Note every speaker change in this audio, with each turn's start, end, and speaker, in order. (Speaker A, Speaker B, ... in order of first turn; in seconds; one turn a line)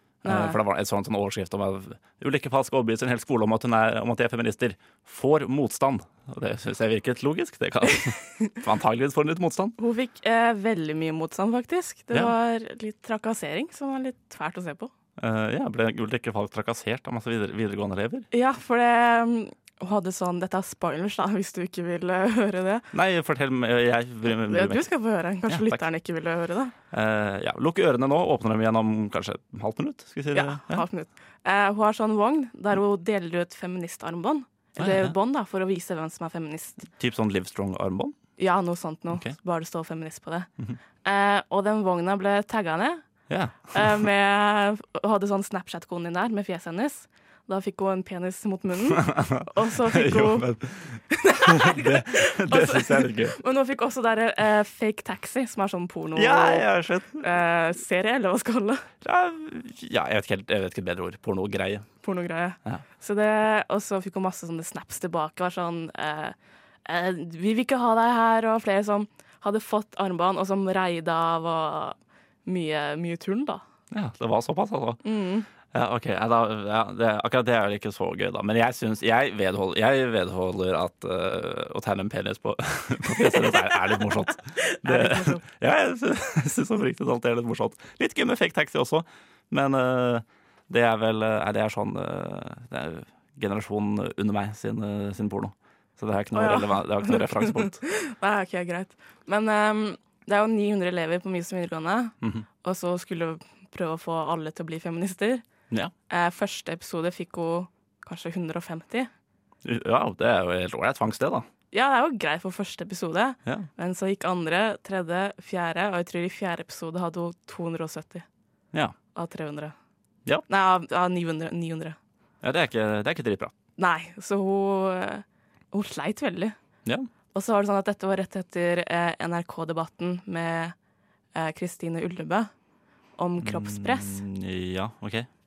Speaker A: 0.2-9.8
Speaker B: 0.2-0.6
Speaker B: 9.8-14.9
Speaker A: 15.2-18.3
Speaker B: 18.3-22.9
Speaker A: 22.9-24.9
Speaker B: 24.4-26.7
Speaker A: 25.5-25.8
Speaker A: 26.9-30.9
Speaker B: 30.3-36.9
Speaker A: 34.8-35.1
Speaker A: 36.9-38.2
Speaker B: 38.4-40.5
Speaker A: 39.1-39.4
Speaker B: 41.0-43.0
Speaker A: 43.3-44.0
Speaker B: 43.7-50.5
Speaker A: 48.9-53.4
Speaker B: 51.1-58.9
Speaker A: 56.1-57.2
Speaker A: 59.0-61.9
Speaker B: 62.0-73.6
Speaker A: 73.9-75.0
Speaker B: 75.0-75.5
Speaker A: 75.7-97.8
Speaker B: 84.5-85.4
Speaker B: 96.3-105.4
Speaker B: 106.1-109.1
Speaker A: 109.6-111.5
Speaker B: 111.7-118.2
Speaker B: 119.2-119.7
Speaker B: 120.5-122.0
Speaker A: 122.4-123.5
Speaker B: 123.8-126.5
Speaker B: 127.3-130.7
Speaker B: 131.3-132.5
Speaker B: 133.2-134.2
Speaker A: 133.4-135.3